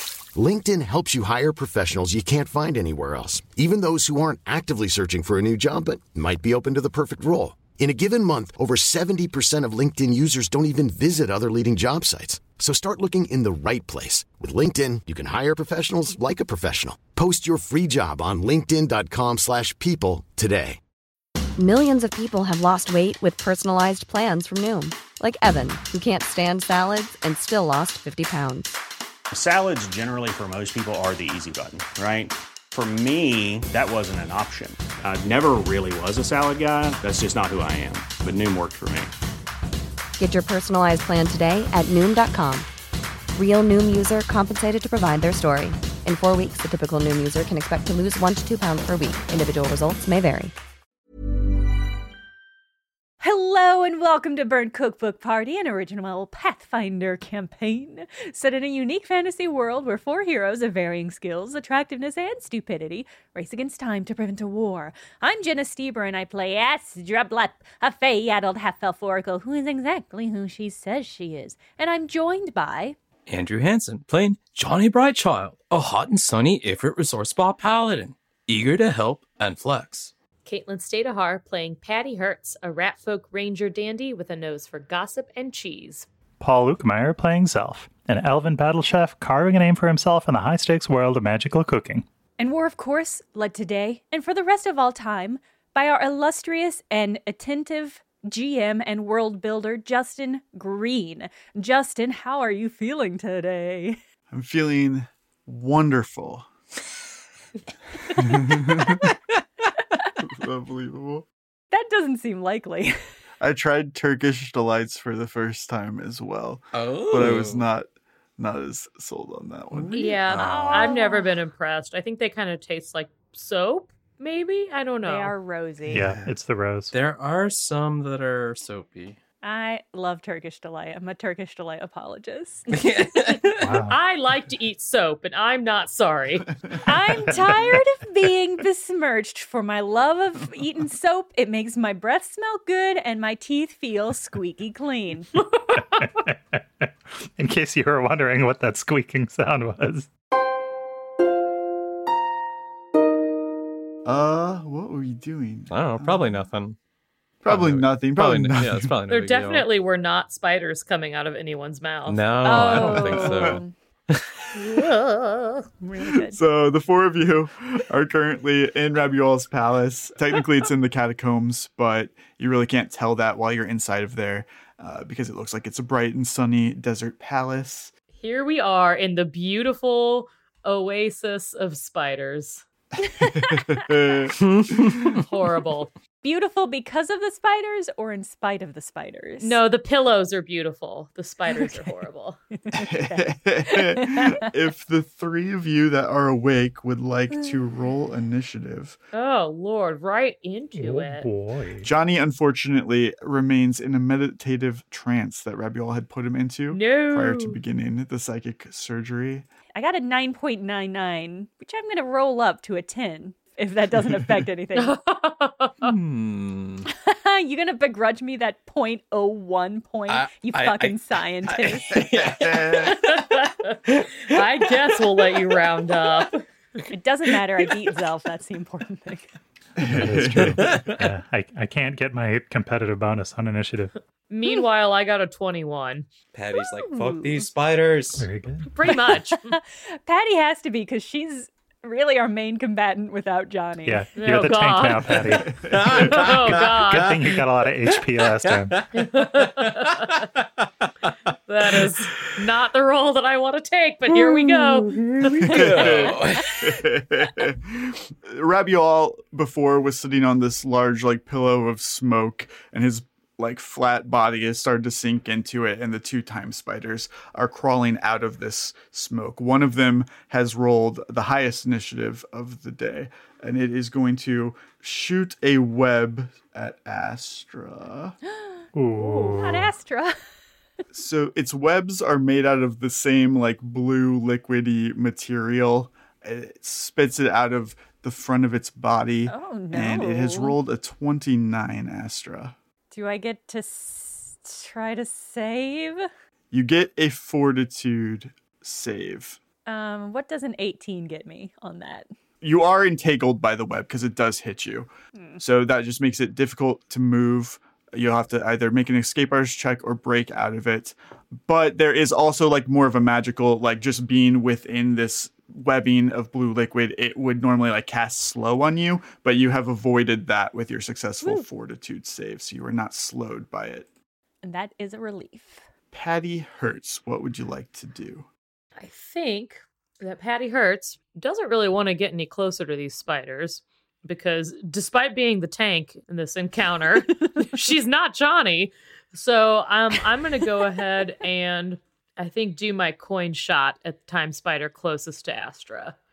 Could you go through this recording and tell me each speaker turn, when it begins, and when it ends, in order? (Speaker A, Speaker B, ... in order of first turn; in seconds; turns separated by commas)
Speaker A: 0.3-20.8, Speaker B: 21.6-28.8, Speaker C: 29.3-39.1, Speaker B: 40.2-42.7, Speaker B: 43.3-50.5, Speaker D: 53.2-73.0, Speaker E: 73.3-80.1, Speaker F: 80.5-86.1, Speaker G: 86.4-92.0, Speaker D: 92.4-104.0, Speaker H: 104.3-106.5, Speaker H: 108.1-109.0, Speaker E: 108.9-109.1, Speaker H: 110.2-111.2, Speaker D: 111.7-112.9, Speaker H: 113.4-120.0, Speaker E: 116.7-117.7, Speaker E: 119.7-121.0, Speaker F: 120.0-125.3, Speaker D: 120.4-121.3, Speaker D: 125.0-126.0, Speaker H: 125.8-126.3, Speaker G: 125.9-126.9, Speaker E: 126.9-129.2, Speaker D: 129.4-132.7, Speaker E: 132.7-133.8, Speaker G: 133.6-134.0, Speaker F: 133.9-136.5, Speaker D: 136.8-145.3, Speaker G: 137.0-137.8, Speaker G: 145.9-150.1, Speaker H: 154.0-156.4, Speaker E: 155.7-156.8, Speaker H: 157.4-159.0, Speaker E: 157.5-159.7, Speaker F: 159.1-163.4, Speaker E: 162.1-164.3, Speaker D: 162.4-163.7, Speaker F: 164.5-165.6, Speaker D: 165.8-166.4, Speaker H: 166.3-177.9, Speaker F: 178.2-182.6, Speaker H: 183.0-184.9, Speaker D: 183.0-183.7, Speaker E: 184.3-185.2, Speaker F: 185.3-185.9, Speaker D: 186.2-189.6, Speaker F: 189.4-192.4, Speaker D: 191.5-191.9, Speaker D: 192.7-194.5, Speaker H: 192.7-199.0, Speaker F: 199.1-201.3, Speaker G: 200.7-201.9, Speaker H: 201.8-209.4, Speaker F: 206.7-207.6, Speaker D: 209.8-215.0, Speaker F: 214.8-215.9, Speaker E: 215.8-216.9, Speaker D: 216.8-222.0, Speaker E: 220.1-222.9, Speaker H: 221.9-222.9, Speaker F: 222.8-226.4, Speaker E: 223.9-225.5, Speaker D: 226.9-229.3, Speaker H: 229.8-230.8, Speaker G: 229.8-233.9, Speaker E: 230.4-231.0, Speaker F: 234.3-236.1, Speaker E: 236.3-238.3, Speaker D: 236.6-237.4, Speaker G: 238.2-238.7, Speaker F: 238.7-239.4, Speaker D: 239.5-244.1, Speaker G: 243.8-248.8, Speaker F: 244.2-245.3, Speaker H: 245.4-246.0, Speaker E: 245.5-251.1, Speaker F: 246.1-247.2, Speaker F: 248.9-250.2, Speaker F: 251.5-256.1, Speaker E: 251.7-252.3, Speaker E: 254.1-256.8, Speaker H: 255.4-278.1, Speaker D: 278.3-278.6, Speaker G: 278.7-279.7, Speaker F: 279.1-279.3, Speaker D: 279.3-280.1, Speaker H: 280.9-292.6, Speaker D: 289.3-290.6, Speaker D: 292.9-296.1, Speaker H: 296.5-299.4, Speaker D: 299.6-302.1, Speaker H: 302.4-304.9, Speaker D: 305.1-305.4, Speaker H: 305.4-323.9, Speaker D: 324.4-325.6, Speaker H: 325.9-328.3, Speaker F: 328.8-345.9